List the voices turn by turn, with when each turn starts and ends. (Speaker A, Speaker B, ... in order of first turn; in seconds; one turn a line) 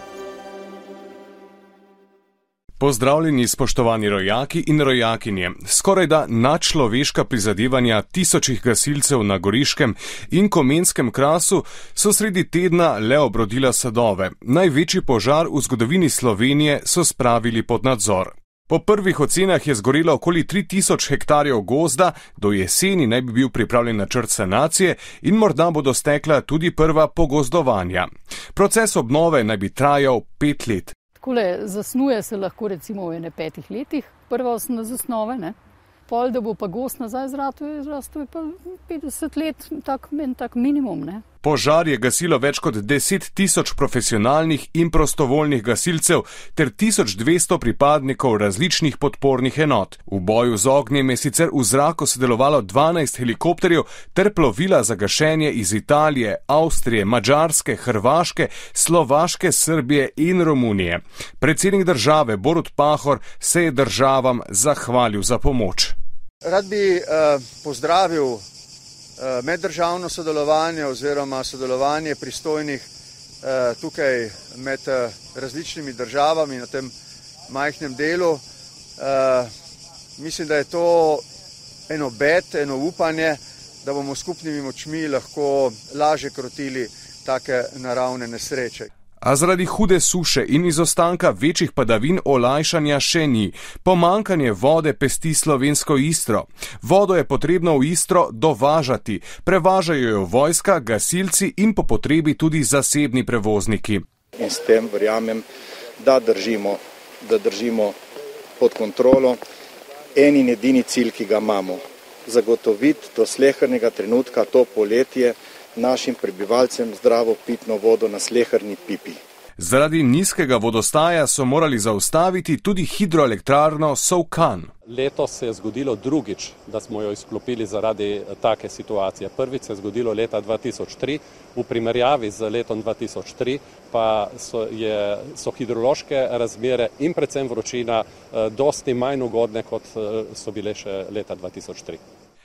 Speaker A: 2.8-30.9
Speaker B: 31.2-35.6
Speaker B: 36.1-41.2
Speaker A: 41.4-66.0
Speaker C: 66.4-68.4
Speaker C: 69.2-72.9
Speaker C: 73.4-76.9
Speaker C: 77.5-78.4
Speaker C: 79.0-79.5
Speaker C: 80.2-81.2
Speaker C: 81.9-88.9
Speaker A: 89.2-104.0
Speaker D: 104.4-105.5
Speaker D: 106.0-108.0
Speaker D: 108.6-109.4
Speaker D: 110.2-119.2
Speaker A: 119.6-124.7
Speaker E: 124.9-142.0